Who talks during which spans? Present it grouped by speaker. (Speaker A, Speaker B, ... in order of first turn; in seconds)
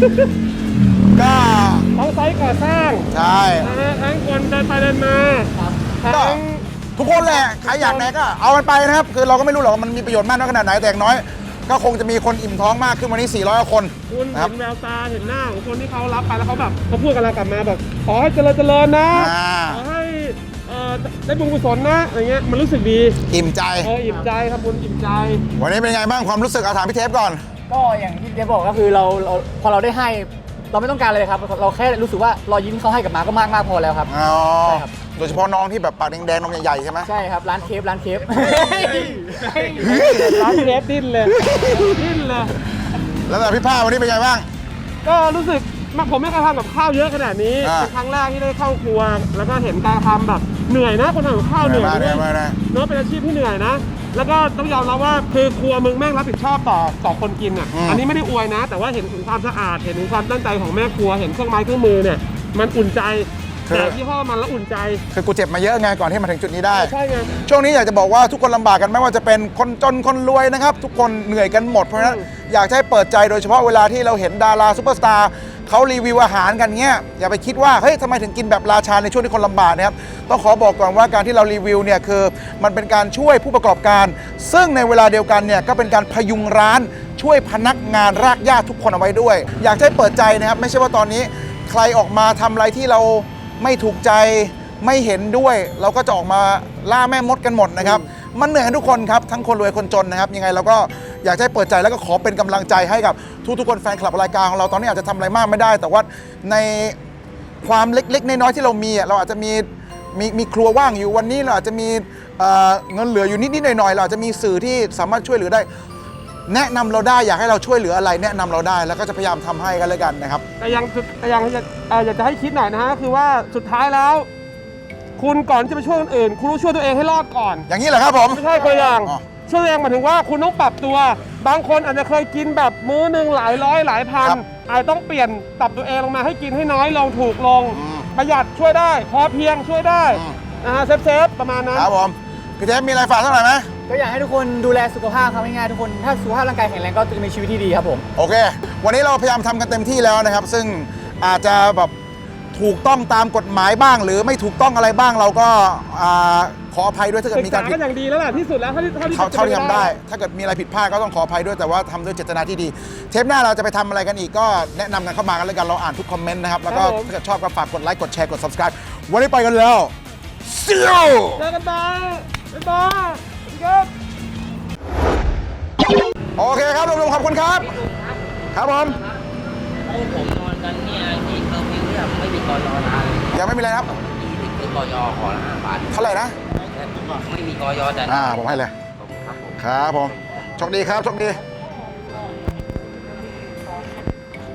Speaker A: 1.1-1.9, 3.1-3.7, 6.1-6.4, 7.0-14.5, 19.1-19.8, 23.3-23.9, 25.6-27.4, 34.1-37.1, 39.7-40.7, 41.3-42.0, 43.2-44.5, 47.6-47.9, 51.6-52.6, 57.7-58.0, 63.7-64.0, 65.1-66.9, 67.5-107.0, 107.6-115.7, 116.5-120.4, 127.7-129.2, 137.7-138.1, 140.1-140.4, 141.7-143.7, 148.2-151.9, 152.5-157.8, 159.1-169.9, 170.4-171.4, 176.4-177.8, 178.5-179.0, 183.3-183.9, 185.9-186.3, 188.1-188.7, 189.6-191.4
Speaker B: 1.9-3.1, 3.6-8.1, 14.1-23.2, 23.8-25.4, 38.4-42.5, 45.0-65.0, 66.7-67.3, 72.0-72.2, 120.6-124.3, 125.2-127.7, 128.3-141.9, 157.3-159.9, 166.7-167.1, 171.4-173.9
Speaker C: 27.7-34.1, 34.6-34.9, 37.0-39.6, 143.9-148.0
Speaker D: 177.6-179.2, 179.8-186.2, 186.7-189.5